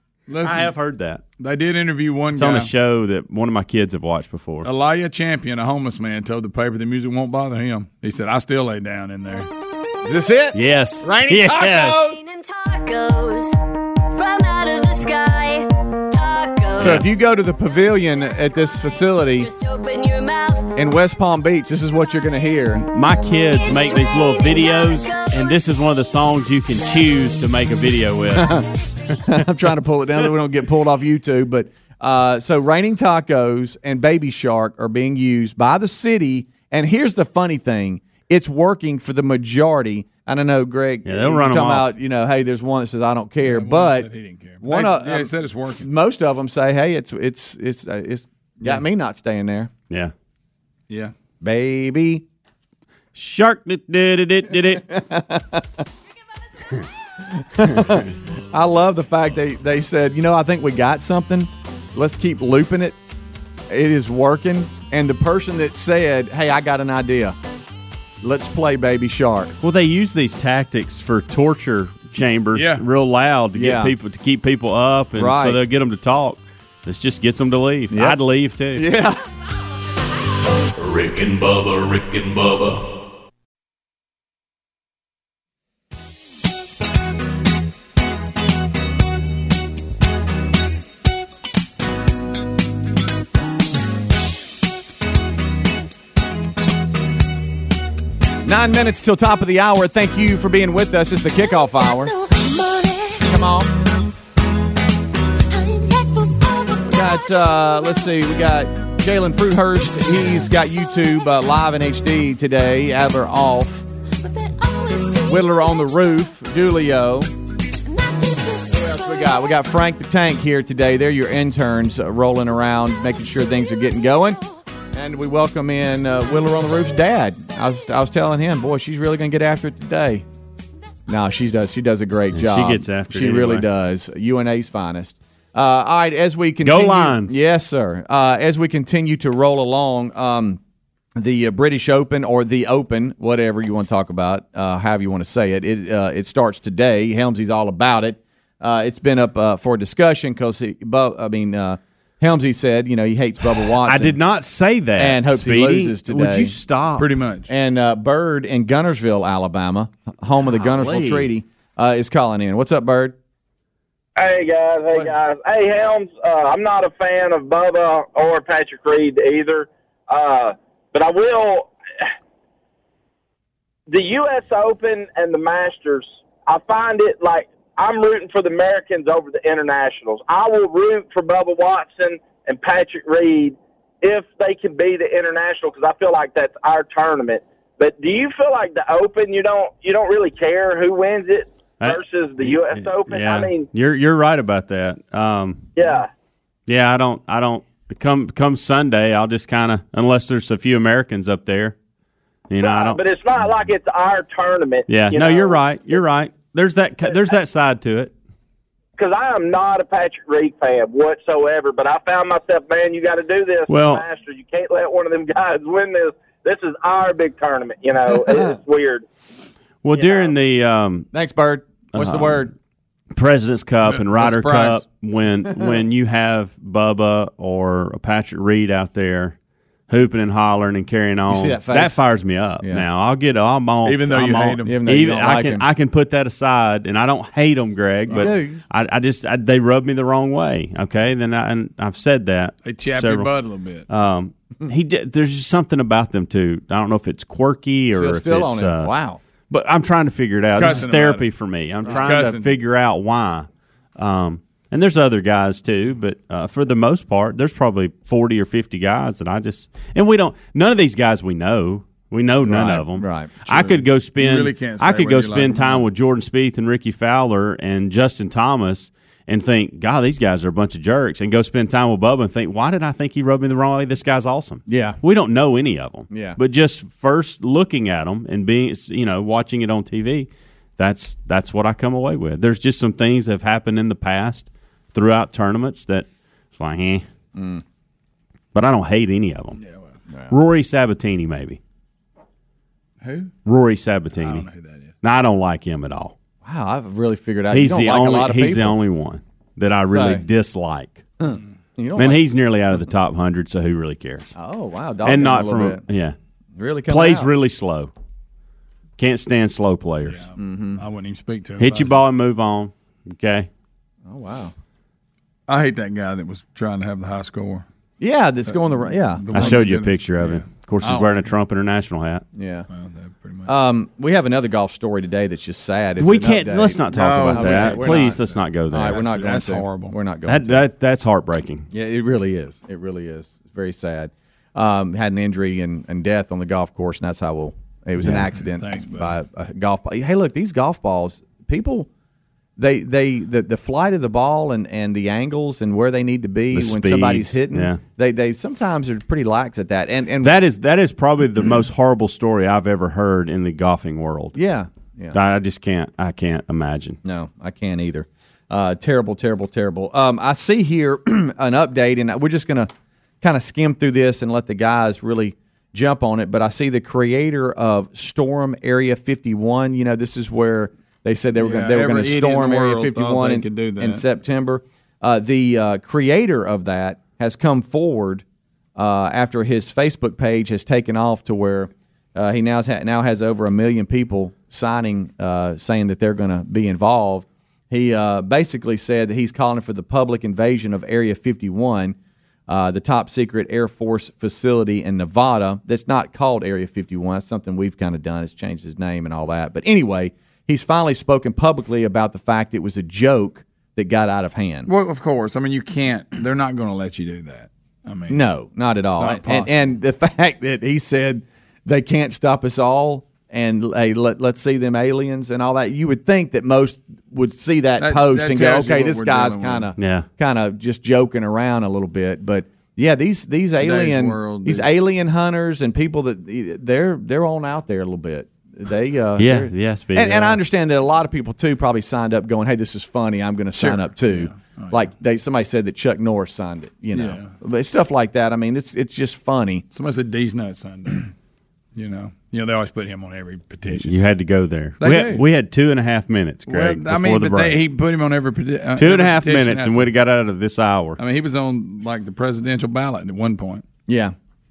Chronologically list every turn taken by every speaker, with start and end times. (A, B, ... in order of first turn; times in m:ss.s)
0:00.3-0:00.7 A
0:00.4-0:01.2 B
0:01.4-0:02.7 A
0:02.4-0:04.7 B
0:04.6-0:09.5 A
0:10.0-0:12.2 C
0:10.5-0:12.1 B
0:11.9-0:13.6 D
0:14.1-0:17.1 D
0:16.8-0:19.5 C
0:16.8-0:17.0 B
0:18.2-0:18.8 D
0:19.4-0:20.8 D
0:20.7-0:22.9 C
0:22.9-0:28.6 B
0:23.5-0:25.6 D
0:28.3-0:28.7 C
0:29.2-0:44.1 C
0:41.0-0:41.9 B
0:43.4-0:45.9 A
0:44.6-0:49.7 C
0:51.4-0:52.2 C
0:53.1-0:54.8 B
0:54.8-0:55.6 C
0:57.4-1:03.0 C
1:03.7-1:07.4 C
1:08.2-1:09.6 C
1:09.6-1:18.9 B
1:12.5-1:12.8 A
1:13.5-1:13.9 C
1:15.2-1:15.6 C
1:17.9-1:18.2 C
1:18.7-1:19.2 C
1:20.8-1:22.8 E
1:38.4-1:42.1 C
1:41.3-1:43.6 D
1:43.2-1:43.7 C
1:45.5-1:48.2 D
1:46.8-1:53.8 C
1:54.2-1:56.3 D
1:55.3-1:57.3 C
1:57.8-1:59.6 D
1:58.7-2:04.4 C
2:04.9-2:10.2 C
2:11.1-2:20.6 C
2:12.3-2:13.7 B
2:16.6-2:17.4 B
2:21.2-2:34.2 C
2:33.8-2:37.0 B
2:35.0-2:36.5 C
2:37.0-2:37.5 A
2:37.5-2:43.2 C
2:40.4-2:41.3 B
2:44.2-2:51.7 F
2:53.9-3:13.7 F
3:11.8-3:15.7 B
3:15.8-3:16.1 F
3:16.7-3:21.7 B
3:22.5-3:23.0 B
3:22.6-3:26.0 F
3:24.9-3:28.1 B
3:29.0-3:39.0 F
3:33.7-3:34.0 B
3:38.1-3:38.5 C
3:39.8-3:41.1 B
3:40.0-3:40.3 F
3:41.1-3:42.5 C
3:41.9-3:42.5 B
3:43.1-3:49.4 B
3:43.8-3:44.8 A
3:49.9-4:03.3 B
3:51.3-3:52.0 C
3:53.8-3:54.7 A
3:54.6-3:55.6 C
3:58.1-3:58.3 A
3:58.1-3:58.6 C
4:02.6-4:03.8 A
4:03.9-4:08.9 B
4:07.9-4:09.2 C
4:09.5-4:47.0 B
4:10.5-4:11.3 A
4:11.8-4:12.5 A
4:22.5-4:23.8 C
4:24.2-4:25.8 A
4:34.7-4:35.0 C
4:36.1-4:36.4 C
4:47.3-4:47.6 C
4:48.5-4:49.6 B
4:49.6-4:49.9 A
4:50.3-4:51.6 B
4:53.0-4:53.3 A
4:53.4-4:54.5 B
4:54.1-4:54.9 A
4:55.0-4:56.1 B
4:56.4-4:58.8 C
4:57.5-5:01.1 B
4:59.9-5:00.2 C
5:01.2-5:02.2 C
5:02.0-5:04.3 B
5:04.3-5:05.8 C
5:05.0-5:06.2 B
5:06.6-5:07.3 C
5:06.9-5:07.9 B
5:09.0-5:10.2 B
5:10.0-5:12.0 A
5:10.4-5:10.8 C
5:11.6-5:13.5 B
5:14.0-5:14.5 C
5:15.5-5:17.6 A
5:18.0-5:19.6 C
5:18.5-5:21.3 A
5:19.3-5:22.2 B
5:22.3-5:22.7 C
5:22.7-5:23.5 A
5:23.4-5:28.2 C
5:26.0-5:29.0 B
5:26.9-5:30.0 A
5:28.7-5:30.6 C
5:30.3-5:31.7 B
5:31.7-5:41.9 C
5:38.0-5:39.1 A
5:42.6-5:50.4 C
5:46.5-5:47.8 B
5:50.2-5:54.4 B
5:54.3-5:55.2 C
5:55.1-5:57.0 B
5:57.0-6:02.7 C
6:03.2-6:18.2 C
6:11.4-6:14.0 A
6:18.8-6:32.0 C
6:32.5-6:44.7 C
6:44.6-6:48.2 A
6:48.1-7:19.6 C
6:48.9-6:49.8 A
6:57.8-6:59.7 A
6:59.8-7:00.1 B
7:03.6-7:04.8 A
7:09.2-7:10.4 B
7:13.6-7:14.9 A
7:16.9-7:17.3 A
7:19.7-7:21.1 A
7:21.8-7:23.9 A
7:23.8-7:27.6 B
7:24.8-7:25.2 A
7:26.5-7:29.9 A
7:28.8-7:31.0 B
7:31.0-7:33.6 A
7:33.9-7:34.1 C